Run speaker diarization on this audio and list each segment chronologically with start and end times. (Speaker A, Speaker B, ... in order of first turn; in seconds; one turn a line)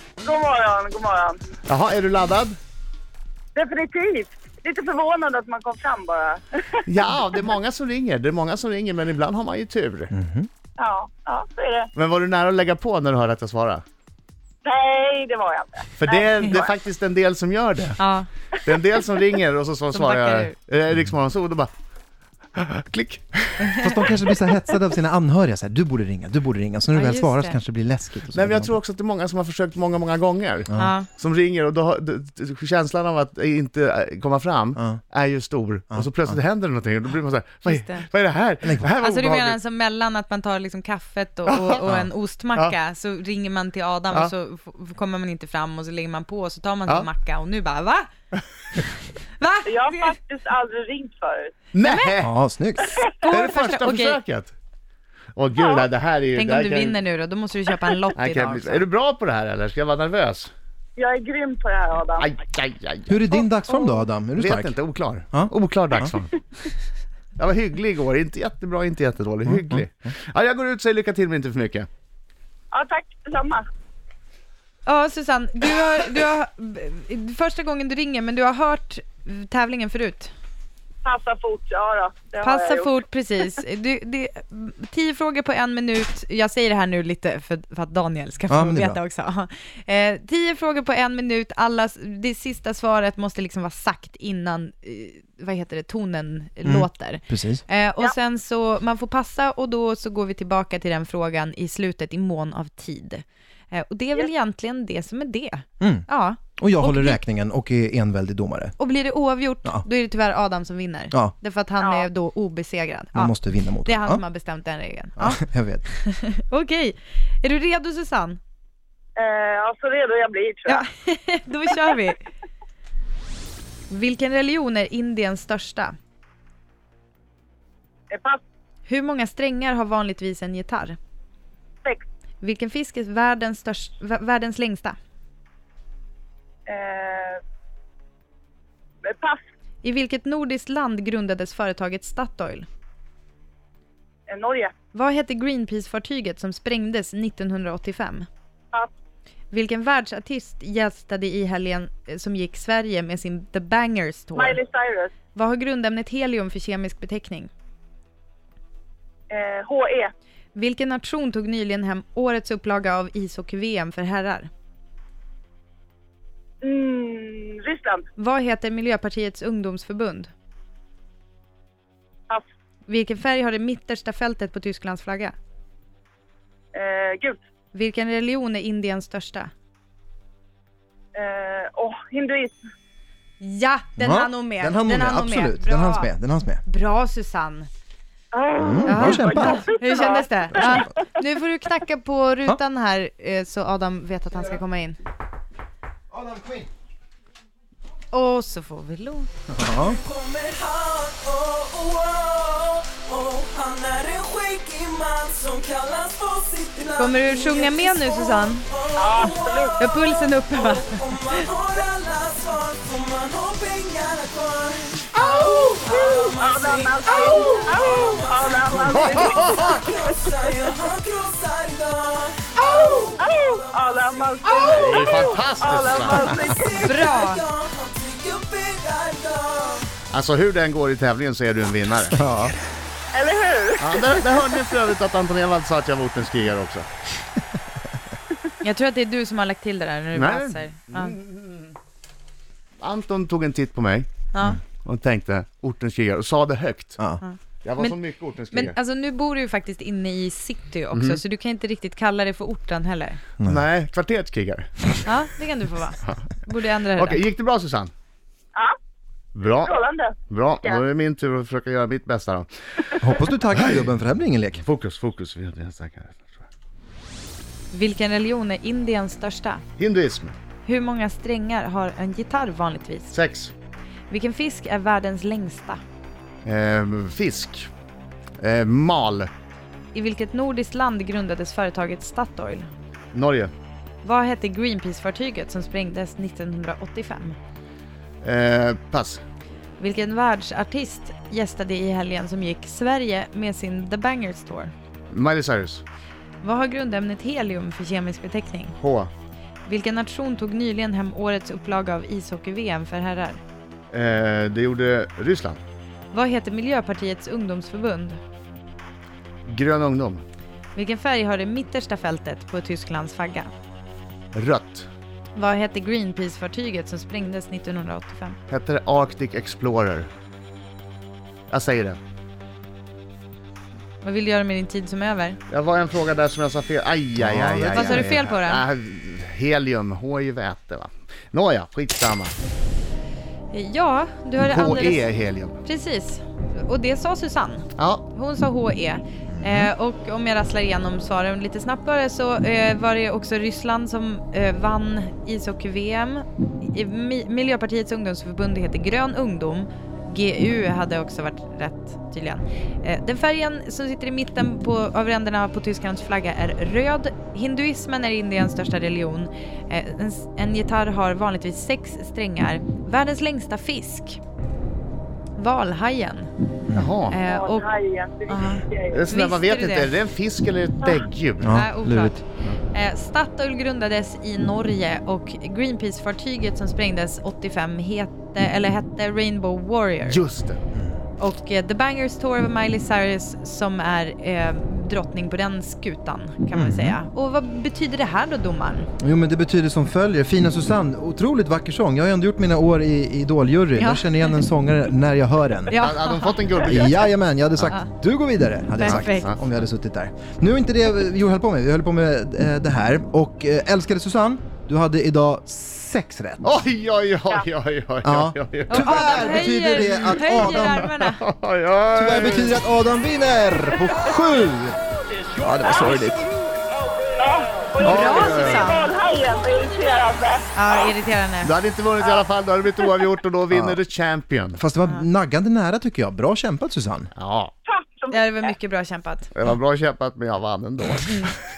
Speaker A: 0.2-1.4
Speaker B: 1.7-2.6
Speaker A: 3.5-6.8
Speaker B: 6.8-10.1
Speaker C: 10.1-10.5
Speaker A: 10.8-11.9
Speaker B: 11.9-13.8
Speaker A: 14.6-16.3
Speaker B: 16.0-18.0
Speaker D: 16.4-16.7
Speaker D: 18.0-18.3
Speaker B: 18.5-21.7
Speaker D: 19.9-20.5
Speaker B: 22.6-23.9
Speaker C: 23.7-28.8
Speaker D: 26.9-27.6
Speaker B: 28.3-39.6
Speaker D: 30.8-31.1
Speaker D: 37.6-38.1
Speaker D: 38.9-48.1
Speaker B: 41.5-41.8
Speaker D: 48.8-50.2
Speaker A: 49.6-51.5
Speaker B: 51.7-52.3
Speaker D: 51.8-52.1
Speaker C: 52.2-53.0
Speaker D: 53.0-54.2
Speaker B: 53.3-54.5
Speaker B: 55.4-57.0
Speaker D: 56.3-58.9
Speaker B: 58.1-60.5
Speaker A: 61.0-62.3
Speaker B: 62.2-63.3
Speaker C: 63.1-64.7
Speaker D: 63.7-64.0
Speaker B: 64.3-66.4
Speaker C: 65.3-66.1
Speaker B: 67.4-71.9
Speaker C: 69.5-69.8
Speaker A: 72.7-73.6
Speaker D: 74.8-80.3
Speaker A: 81.0-82.9
Speaker D: 82.4-107.2
Speaker C: 88.5-89.0
Speaker C: 96.6-97.6
Speaker C: 105.8-108.8
Speaker D: 108.8-118.4
Speaker A: 111.8-112.1
Speaker C: 113.2-114.2
Speaker C: 115.2-115.8
Speaker A: 119.2-120.8
Speaker D: 120.7-122.2
Speaker D: 123.9-126.0
Speaker A: 128.1-128.4
Speaker D: 128.9-131.0
Speaker D: 132.4-135.0
Speaker A: 136.7-137.4
Speaker A: 139.0-139.4
Speaker D: 139.8-142.7
Speaker A: 144.3-144.7
Speaker D: 144.9-148.3
Speaker D: 149.5-154.6
Speaker A: 154.3-155.2
Speaker D: 155.2-157.5
Speaker A: 159.3-160.1
Speaker D: 160.5-164.5
Speaker A: 166.6-168.1
Speaker D: 168.2-170.3
Speaker D: 172.9-175.3
Speaker A: 176.7-177.4
Speaker D: 177.7-179.5
Speaker A: 181.1-182.6
Speaker D: 183.4-186.1
Speaker C: 184.0-186.6
Speaker D: 186.6-187.7
Speaker A: 188.3-191.1
Speaker C: 188.6-189.7
Speaker D: 188.8-195.0
Speaker C: 196.1-196.7
Speaker D: 198.1-199.3
Speaker C: 199.5-200.0
Speaker E: 199.7-225.3
Speaker D: 207.0-208.7
Speaker A: 208.9-209.8
Speaker D: 209.2-211.4
Speaker A: 215.8-220.0
Speaker B: 218.9-219.7
Speaker A: 222.8-227.0
Speaker B: 224.6-226.3
Speaker E: 226.0-229.9
Speaker D: 226.8-227.4
Speaker B: 230.1-232.3
Speaker C: 232.1-232.5
Speaker A: 233.1-234.2
Speaker B: 233.8-236.9
Speaker D: 238.6-241.2
Speaker B: 240.1-241.7
Speaker B: 242.8-244.1
Speaker D: 244.3-244.6
Speaker B: 244.8-247.0
Speaker D: 247.2-248.0
Speaker B: 247.6-248.7
Speaker D: 248.5-253.2
Speaker B: 250.9-251.2
Speaker B: 253.4-255.1
Speaker D: 255.1-257.2
Speaker B: 256.9-257.9
Speaker B: 259.3-259.8
Speaker A: 259.6-260.8
Speaker B: 260.3-263.0
Speaker C: 263.0-264.6
Speaker B: 264.6-266.4
Speaker D: 267.7-269.6
Speaker B: 269.8-270.3
Speaker D: 270.6-273.1
Speaker B: 273.1-273.5
Speaker D: 274.1-275.8
Speaker B: 276.4-277.7
Speaker B: 278.4-279.3
Speaker D: 279.9-282.7
Speaker B: 283.1-283.5
Speaker D: 284.0-287.4
Speaker B: 288.2-289.2
Speaker D: 289.8-294.7
Speaker B: 295.1-295.8
Speaker D: 296.4-298.8
Speaker B: 298.8-299.1
Speaker D: 299.7-303.4
Speaker B: 303.9-305.6
Speaker D: 306.1-308.2
Speaker B: 309.4-310.2
Speaker D: 310.8-313.5
Speaker B: 314.3-314.9
Speaker D: 315.4-318.4
Speaker B: 318.5-320.1
Speaker B: 321.5-322.0
Speaker D: 324.0-325.4
Speaker B: 325.5-332.3
Speaker C: 327.2-328.1
Speaker D: 327.7-328.6
Speaker D: 333.5-335.1
Speaker B: 334.4-335.6
Speaker D: 335.6-364.2
Speaker B: 337.8-338.0
Speaker C: 339.4-339.7
Speaker D: 365.4-366.3
Speaker B: 366.7-367.2
Speaker D: 367.1-367.7
Speaker A: 367.2-369.0
Speaker D: 368.3-369.9
Speaker B: 368.9-371.6
Speaker C: 371.4-372.2
Speaker D: 371.5-372.2
Speaker D: 372.7-380.2
Speaker B: 380.1-380.6
Speaker D: 381.2-388.9
Speaker C: 386.5-387.0
Speaker C: 389.0-395.8
Speaker D: 393.8-394.1
Speaker D: 395.7-396.4
Speaker B: 395.7-397.1
Speaker C: 396.6-406.5
Speaker D: 398.8-399.3
Speaker B: 398.9-399.3
Speaker B: 406.4-409.5
Speaker C: 408.0-410.9
Speaker D: 408.7-411.2
Speaker B: 410.2-412.6
Speaker C: 411.9-414.8
Speaker C: 415.4-416.3
Speaker A: 417.2-420.5
Speaker B: 417.8-418.8
Speaker D: 417.8-418.9
Speaker D: 420.5-421.5
Speaker B: 421.4-424.6
Speaker C: 423.5-423.8
Speaker C: 424.6-427.1
Speaker B: 427.1-427.5
Speaker A: 427.6-428.5
Speaker D: 428.1-429.3
Speaker B: 429.3-431.4